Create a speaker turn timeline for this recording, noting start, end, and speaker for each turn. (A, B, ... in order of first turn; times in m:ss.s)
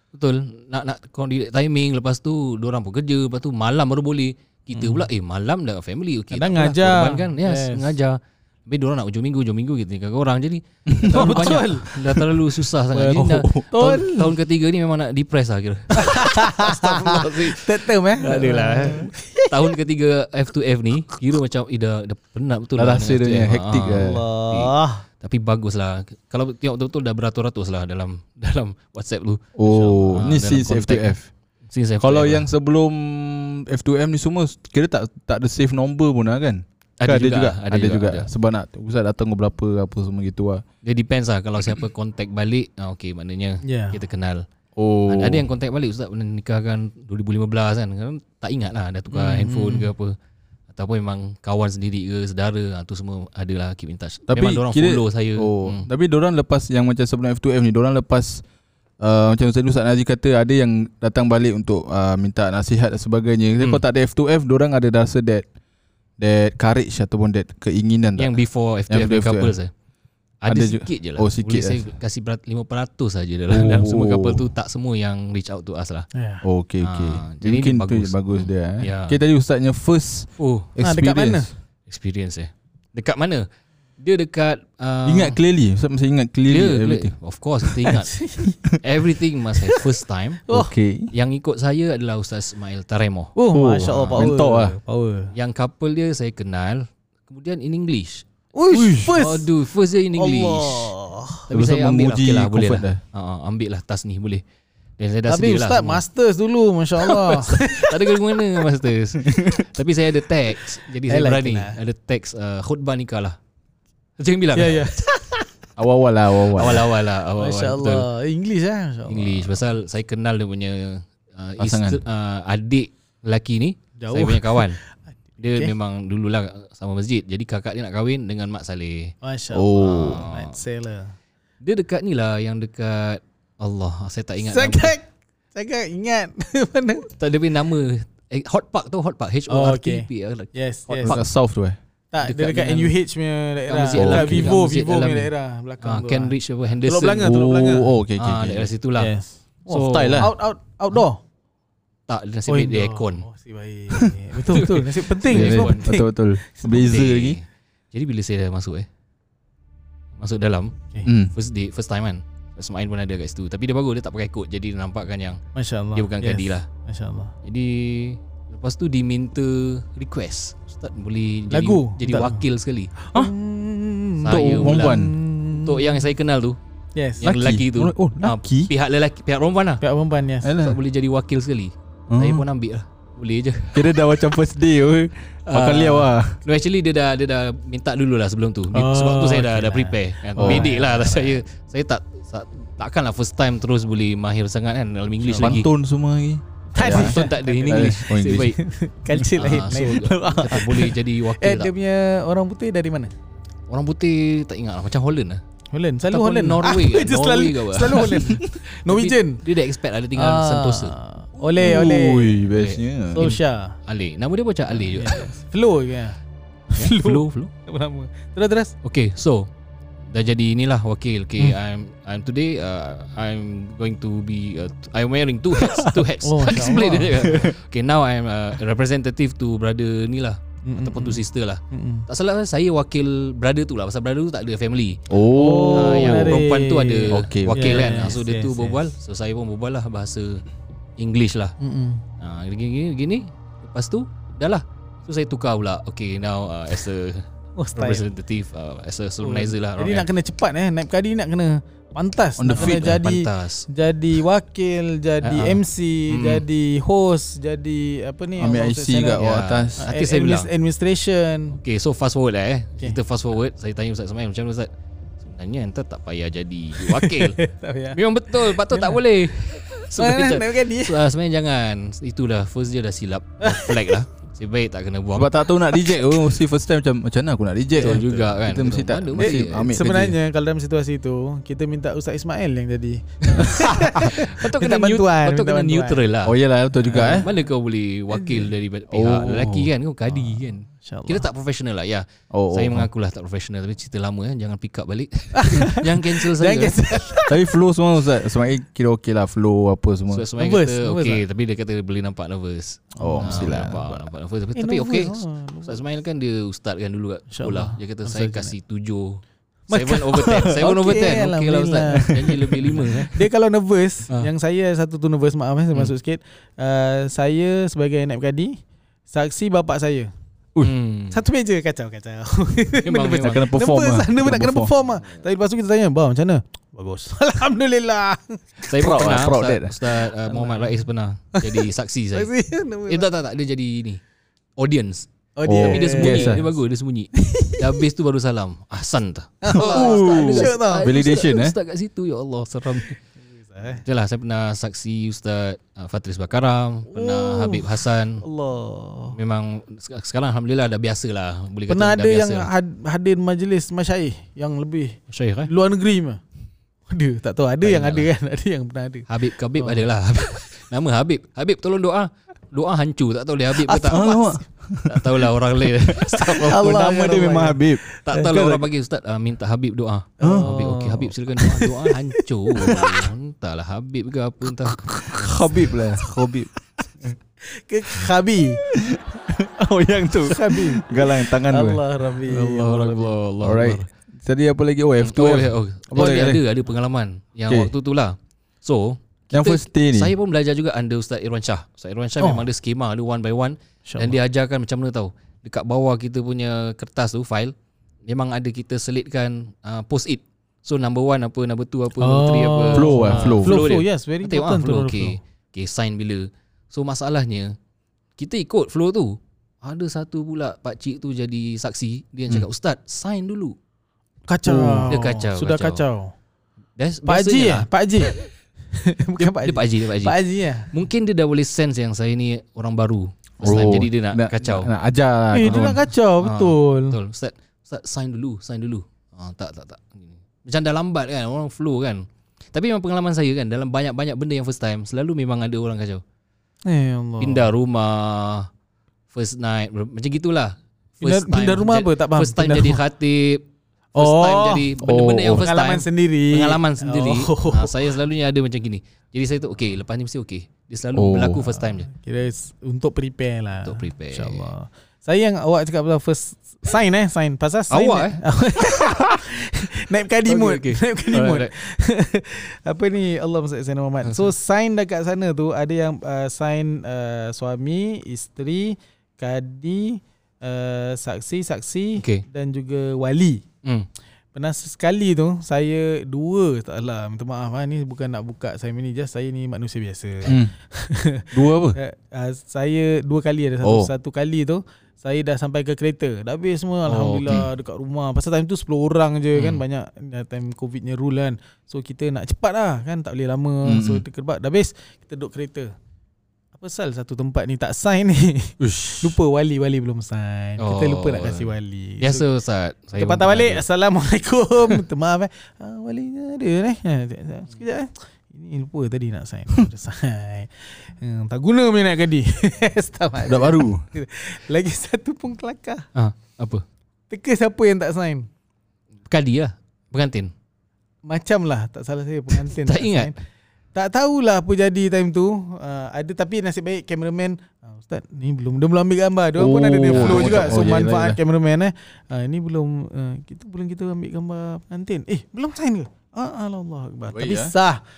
0:00.1-0:31.1 A
0:06.3-0:07.9 B
0:10.9-0:12.2 C
0:11.1-0:12.0 B
0:12.9-0:14.4 B
0:13.1-0:13.7 C
0:15.9-0:19.7 B
0:22.8-0:24.2 C
0:23.9-0:25.0 B
0:29.6-0:31.3 C
0:29.7-0:30.0 B
0:31.7-0:32.5 A
0:32.0-0:40.6 C
0:37.0-0:38.3 A
0:40.8-0:44.4 A
0:43.6-0:44.0 B
0:44.8-0:45.4 C
0:45.1-0:50.1 A
0:49.1-0:49.9 B
0:50.7-0:55.9 A
0:54.3-0:58.4 C
0:59.0-1:05.4 C
1:06.2-1:08.3 C
1:08.2-1:09.7 A
1:08.9-1:09.5 C
1:10.4-1:16.1 A
1:10.5-1:11.8 C
1:13.5-1:14.4 C
1:16.1-1:16.4 B
1:16.4-1:21.5 C
1:16.8-1:19.2 A
1:20.4-1:20.7 A
1:20.8-1:21.5 B
1:21.9-1:23.5 A
1:24.0-1:25.4 A
1:25.0-1:27.1 C
1:26.5-1:28.2 A
1:28.1-1:28.5 B
1:28.4-1:28.8 C
1:28.8-1:30.4 A
1:30.5-1:31.1 C
1:31.1-1:34.3 A
1:33.4-1:35.3 B
1:33.5-1:34.8 C
1:35.3-1:38.2 A
1:38.5-1:39.5 B
1:38.7-1:39.1 C
1:39.1-1:40.9 A
1:40.2-1:41.4 B
1:41.5-1:44.4 A
1:41.5-1:43.0 C
1:45.0-1:46.0 A
1:45.3-1:48.3 B
1:47.1-1:53.4 A
1:49.3-1:49.6 C
1:51.1-1:51.8 B
1:54.2-1:54.9 A
1:54.5-1:55.5 B
1:55.8-1:56.8 C
1:56.5-1:58.1 A
1:57.4-1:59.6 B
1:59.0-2:04.8 A
2:01.6-2:02.0 C
2:04.0-2:04.9 B
2:05.4-2:09.1 A
2:09.2-2:11.1 B
2:09.5-2:10.2 C
2:09.8-2:10.6 A
2:11.6-2:14.9 A
2:14.4-2:17.1 B
2:17.2-2:21.2 A
2:19.5-2:21.2 B
2:21.0-2:21.8 C
2:22.1-2:27.9 B
2:22.2-2:22.9 A
2:23.7-2:25.3 A
2:24.0-2:24.5 C
2:25.8-2:27.3 A
2:27.2-2:28.7 C
2:28.2-2:29.1 A
2:29.0-2:31.2 B
2:29.7-2:30.3 A
2:29.8-2:30.3 C
2:32.1-2:33.2 A
2:32.5-2:36.0 B
2:34.5-2:35.9 A
2:35.3-2:37.4 C
2:36.6-2:38.9 A
2:40.2-2:40.8 A
2:41.0-2:41.3 C
2:41.3-2:45.4 A
2:45.5-2:47.3 B
2:45.9-2:46.6 A
2:47.4-2:52.9 A
2:51.5-2:52.4 B
2:53.0-2:56.1 B
2:54.2-2:55.0 A
2:54.2-2:55.1 C
2:55.5-2:56.6 A
2:56.9-2:57.2 B
2:57.2-2:59.8 A
2:57.2-2:58.7 C
2:59.8-3:00.5 B
3:00.4-3:00.8 C
3:00.6-3:04.0 A
3:02.1-3:02.4 C
3:03.7-3:06.4 C
3:05.5-3:15.7 A
3:08.7-3:11.4 B
3:10.4-3:10.6 C
3:15.3-3:18.5 C
3:16.8-3:23.1 B
3:16.8-3:18.6 A
3:19.3-3:21.7 A
3:23.7-3:25.4 A
3:25.7-3:29.4 B
3:26.1-3:31.0 A
3:30.1-3:32.4 B
3:31.6-3:33.2 C
3:32.5-3:35.3 A
3:33.1-3:33.8 B
3:34.7-3:36.2 B
3:36.7-3:38.7 B
3:36.8-3:37.5 A
3:38.8-3:39.5 A
3:40.1-3:55.0 A
3:45.6-3:47.6 B
3:50.6-3:52.1 B
3:55.1-3:56.4 C
3:55.3-3:58.8 B
3:55.7-4:00.4 A
3:57.1-3:58.1 C
4:01.0-4:01.5 A
4:01.6-4:02.0 B
4:02.2-4:10.1 A
4:07.6-4:08.0 B
4:09.2-4:19.2 B
4:12.4-4:13.0 C
4:12.5-4:13.6 A
4:15.2-4:16.4 A
4:18.4-4:19.8 C
4:19.2-4:20.5 A
4:19.8-4:21.6 B
4:21.6-4:24.7 A
4:25.2-4:27.4 A
4:26.8-4:31.0 B
4:27.9-4:35.3 A
4:33.4-4:34.0 B
4:35.2-4:40.2 C
4:37.8-4:39.9 A
4:37.8-4:38.0 B
4:39.2-4:46.0 B
4:43.3-4:46.4 A
4:46.2-4:47.2 C
4:46.9-4:47.3 B
4:46.9-4:57.0 A
4:48.1-4:48.5 B
4:48.9-4:49.7 C
4:50.3-4:51.3 B
4:52.3-4:52.9 C
4:55.4-4:57.4 B
4:57.3-5:00.2 C
5:00.1-5:13.2 A
5:00.4-5:01.2 B
5:03.0-5:03.8 C
5:03.0-5:04.0 B
5:04.5-5:05.8 B
5:07.3-5:08.5 B
5:09.7-5:18.6 B
5:19.1-5:20.1 B
5:20.6-5:21.2 A
5:21.1-5:29.1 B
5:22.8-5:23.5 A
5:23.1-5:24.7 C
5:28.7-5:32.3 A
5:28.7-5:29.7 C
5:30.2-5:30.8 B
5:31.4-5:33.1 B
5:32.9-5:34.0 A
5:34.6-5:43.0 A
5:35.4-5:36.4 B
5:35.4-5:36.4 C
5:37.2-5:37.7 B
5:39.4-5:40.9 B
5:39.5-5:41.5 C
5:43.3-5:43.8 B
5:43.8-5:48.2 A
5:46.9-5:49.2 B
5:49.1-5:52.5 A
5:51.7-5:56.2 B
5:55.1-5:55.5 A
5:56.9-5:59.8 B
5:57.6-5:58.1 A
5:59.1-6:04.2 A
6:03.6-6:04.4 B
6:03.9-6:05.2 C
6:04.8-6:06.5 A
6:05.9-6:08.6 C
6:06.2-6:07.9 B
6:08.0-6:15.4 A
6:10.2-6:11.6 B
6:10.2-6:10.6 C
6:12.7-6:13.0 C
6:14.8-6:16.5 C
6:17.5-6:18.6 B
6:18.7-6:21.8 C
6:20.2-6:23.1 B
6:22.3-6:23.9 A
6:23.4-6:26.4 C
6:25.0-6:37.5 A
6:26.0-6:26.3 B
6:29.3-6:30.1 C
6:32.2-6:32.5 B
6:33.8-6:34.2 B
6:38.1-6:47.6 A
6:42.0-6:45.2 B
6:42.7-6:43.6 C
6:48.2-6:53.6 A
6:54.3-6:56.1 B
6:54.4-6:54.9 C
6:54.9-6:55.8 A
6:56.8-6:57.7 A
6:57.0-6:58.2 B
6:58.7-7:00.7 B
6:59.2-7:00.2 A
7:00.7-7:04.7 A
7:03.4-7:05.8 C
7:05.3-7:07.0 B
7:06.2-7:16.0 A
7:16.6-7:17.5 B
7:17.2-7:18.5 A
7:19.1-7:31.9 A
7:21.0-7:22.8 B
7:24.0-7:24.7 B
7:24.8-7:25.4 C
7:25.4-7:27.8 B
7:30.9-7:31.5 C
7:31.9-7:53.4 B
7:33.6-7:34.5 A
7:37.7-7:38.2 A
7:40.2-7:41.5 A
7:44.0-7:44.3 A
7:52.0-7:52.2 A
7:54.3-8:15.7 B
8:00.2-8:00.5 C
8:01.3-8:01.8 C
8:03.6-8:03.9 C
8:06.9-8:07.4 A
8:09.3-8:09.6 A
8:13.6-8:14.0 C
8:16.5-8:22.3 B
8:18.6-8:19.2 C
8:20.6-8:23.6 A
8:23.0-8:35.8 B
8:33.2-8:33.8 C
8:35.9-8:36.6 A
8:37.1-8:38.3 B
8:39.1-8:40.3 A
8:41.0-8:43.1 B
8:42.5-8:43.1 A
8:43.7-8:57.8 B
8:49.3-8:51.2 C
8:49.9-8:50.7 A
8:57.1-8:57.5 C